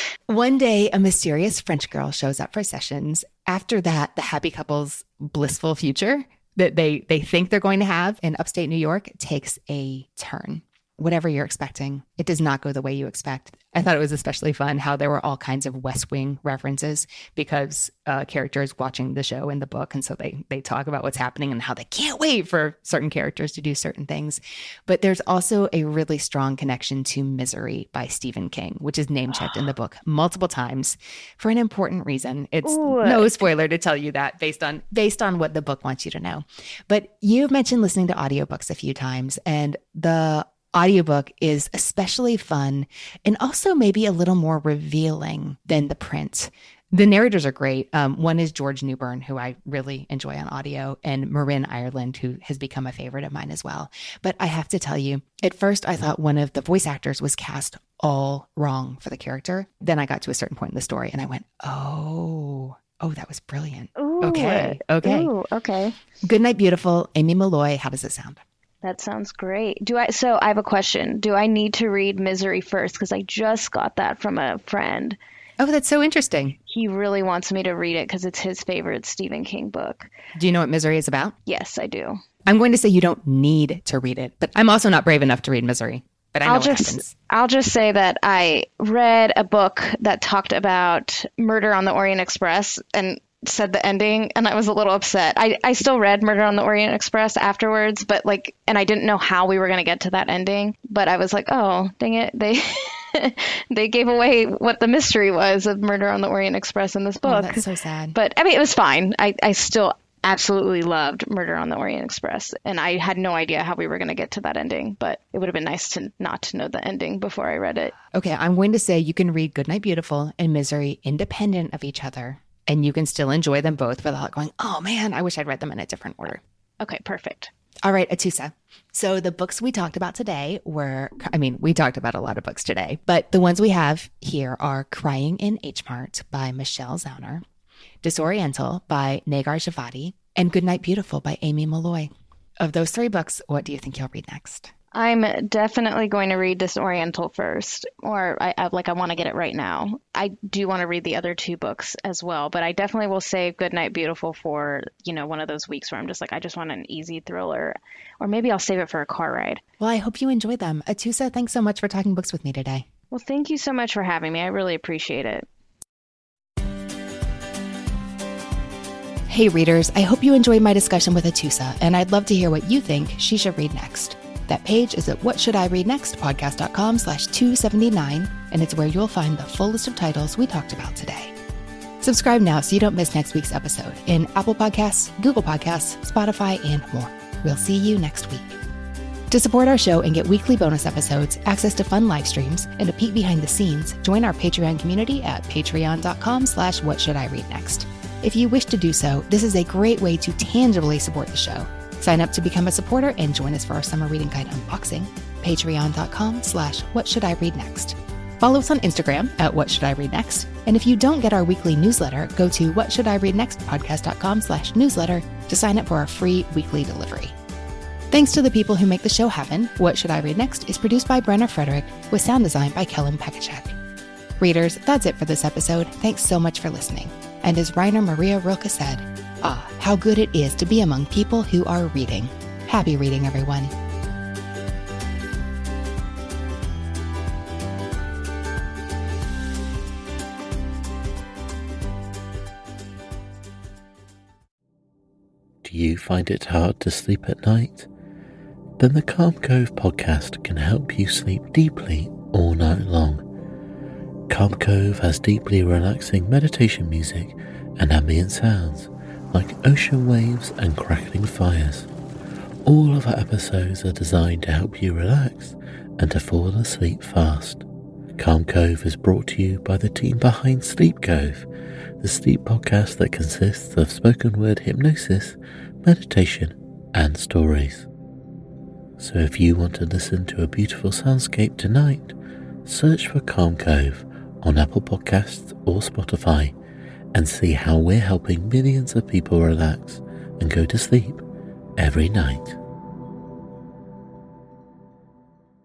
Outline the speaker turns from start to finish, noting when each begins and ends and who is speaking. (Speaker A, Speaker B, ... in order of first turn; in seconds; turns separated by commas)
Speaker A: 0.3-65.3, Speaker B: 32.6-33.3, Speaker B: 64.0-66.0, Speaker A: 66.2-68.4, Speaker B: 68.8-75.2, Speaker A: 75.6-76.6, Speaker B: 76.7-80.1, Speaker A: 80.3-81.3, Speaker B: 81.5-82.2, Speaker A: 82.5-87.1, Speaker B: 86.4-107.6, Speaker A: 107.2-108.2, Speaker B: 108.1-117.9, Speaker A: 118.1-126.4, Speaker B: 126.8-127.5, Speaker A: 127.8-137.4, Speaker A: 138.0-144.7, Speaker B: 144.9-159.6, Speaker A: 159.8-162.9, Speaker B: 163.1-165.4, Speaker A: 169.3-181.3, Speaker A: 182.0-188.6, Speaker A: 189.3-217.3, Speaker A: 218.1-223.7, Speaker A: 224.4-233.7, Speaker C: 245.6-247.9, Speaker C: 248.8-253.2, Speaker C: 254.3-261.9, Speaker C: 262.6-267.6, Speaker C: 268.2-271.4, Speaker C: 272.0-277.9, Speaker C: 279.0-286.5, Speaker C: 287.1-291.2, Speaker C: 291.8-292.6